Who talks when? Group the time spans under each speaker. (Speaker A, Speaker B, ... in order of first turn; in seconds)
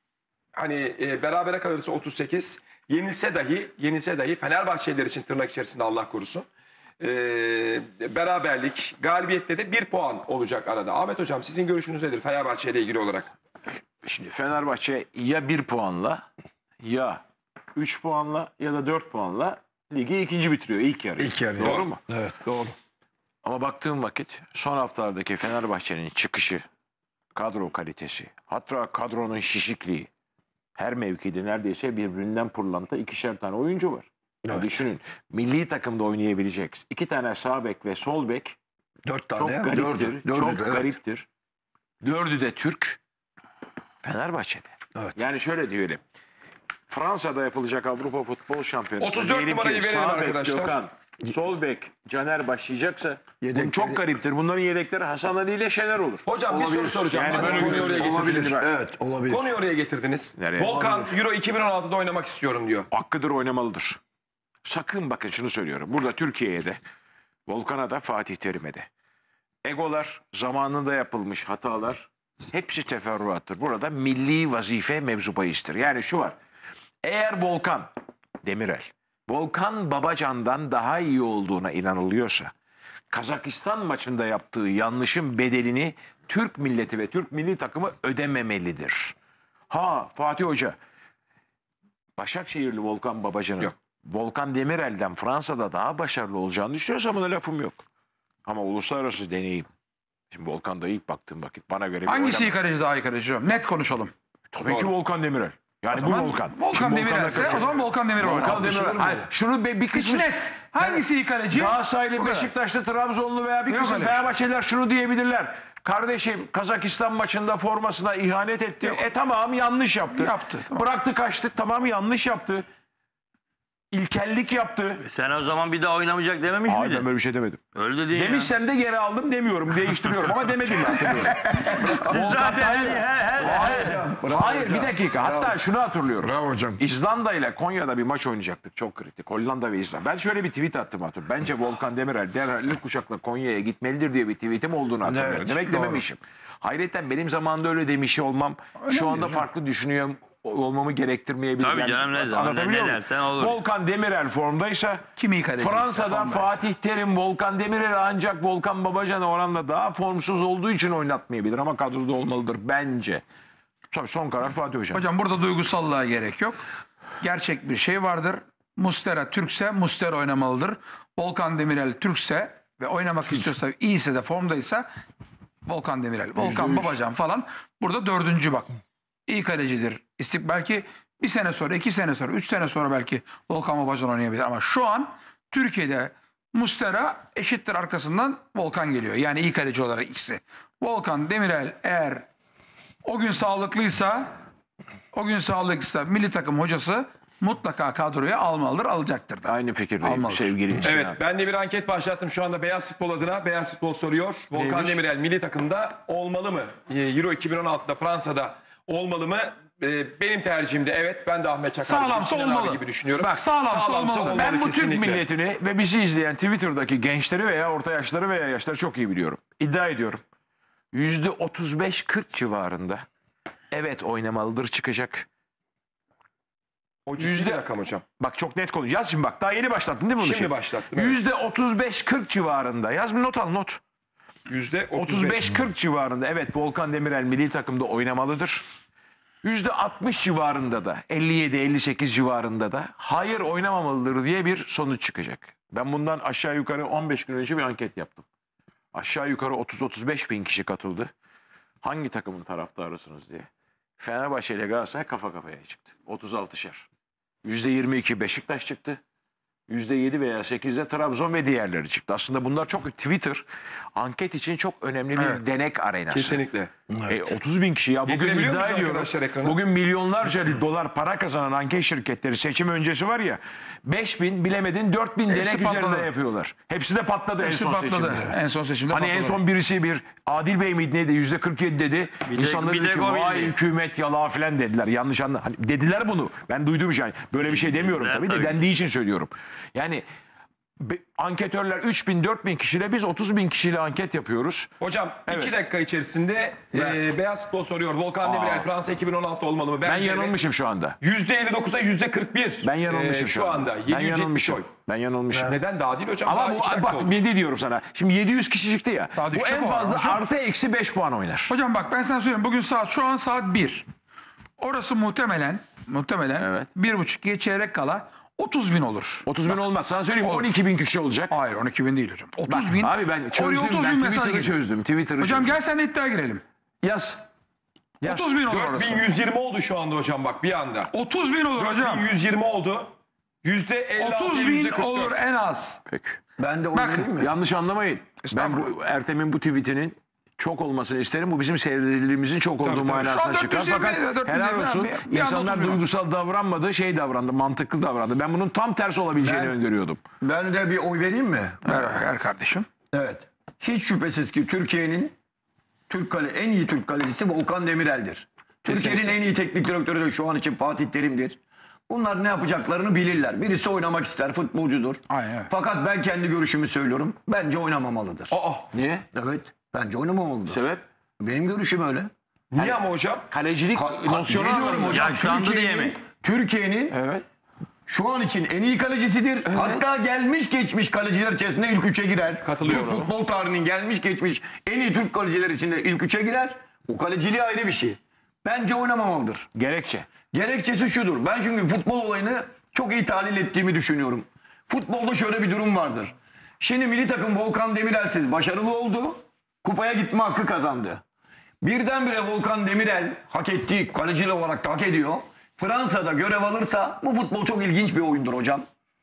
Speaker A: 0.5-6.5, 7.0-13.3, 49.0-50.8, 56.2-58.6, 59.3-62.9, 200.8-215.2, 227.1-228.0, 230.2-231.2, 234.5-235.5, 266.1-266.7, 268.1-269.6, 294.8-300.4, 301.0-304.7, 305.3-307.1, 328.5-330.9, 331.6-332.9, 333.4-335.1, 342.6-343.0, 368.3-368.7, 372.5-373.2, 382.4-383.1
Speaker B: 13.7-16.2, 16.8-17.2, 17.7-22.0, 23.4-26.6, 27.3-30.1, 30.8-38.6, 39.4-41.3, 42.0-43.0, 44.0-46.0, 46.9-56.3, 57.1-58.7, 60.4-61.1, 62.9-64.0, 64.7-66.8, 67.5-68.9, 69.6-76.4, 77.0-77.9, 78.4-82.5, 83.1-89.1, 89.7-90.8, 92.2-97.8, 98.4-99.7, 100.3-102.5, 104.5-122.7, 123.9-125.0, 126.7-155.0, 155.6-163.2, 163.9-165.0, 176.4-177.0, 199.4-201.2, 204.5-205.0, 214.3-220.2, 220.9-223.0, 223.7-225.3, 227.2-227.6, 228.2-233.8, 234.9-238.6, 239.4-248.2, 248.9-251.1, 251.8-256.9, 257.4-259.0, 259.7-266.4, 267.1-278.4, 278.9-290.0, 290.8-294.7, 295.3-295.5, 296.7-297.0, 298.2-298.7, 299.8-301.0, 302.6-305.6, 306.2-311.5, 316.4-316.7, 319.2-321.3, 322.5-325.6, 326.8-327.2, 328.0-328.4, 335.9-336.2, 337.2-350.0, 358.6-359.2, 368.7-369.1, 370.5-370.8, 372.6-375.5, 376.9-377.2, 379.4-379.8, 382.6-383.1, 389.5-390.1
Speaker C: 21.2-22.7, 39.0-40.9, 53.4-54.0, 56.5-59.4, 108.2-109.2, 131.1-135.6, 136.2-136.8, 145.0-146.0, 336.4-337.3, 349.2-349.5, 350.2-351.8, 352.9-355.1, 355.9-361.4, 361.9-368.3, 369.1-370.6, 371.2-372.1, 373.7-376.9, 377.9-389.5, 390.3-401.0, 401.6-408.6
Speaker D: 102.0-104.1, 105.9-108.7, 109.9-112.5, 113.7-114.2, 120.1-120.8, 148.8-149.4, 155.2-156.6, 164.9-166.6, 167.2-174.8, 175.7-178.7, 179.3-192.3, 193.0-194.3, 195.1-200.5, 211.8-214.5, 275.3-276.1, 277.4-279.4, 309.1-310.2, 311.5-313.8, 314.6-319.3, 320.2-320.5, 321.3-324.5, 325.2-326.4, 328.0-329.0, 330.9-332.1, 334.0-335.8, 336.7-337.1, 338.2-338.7, 343.0-345.8, 351.6-352.7, 365.1-365.5
Speaker E: 125.0-127.0, 127.7-128.5, 131.9-134.0, 151.6-153.6, 282.3-283.5, 287.6-288.5, 374.9-376.0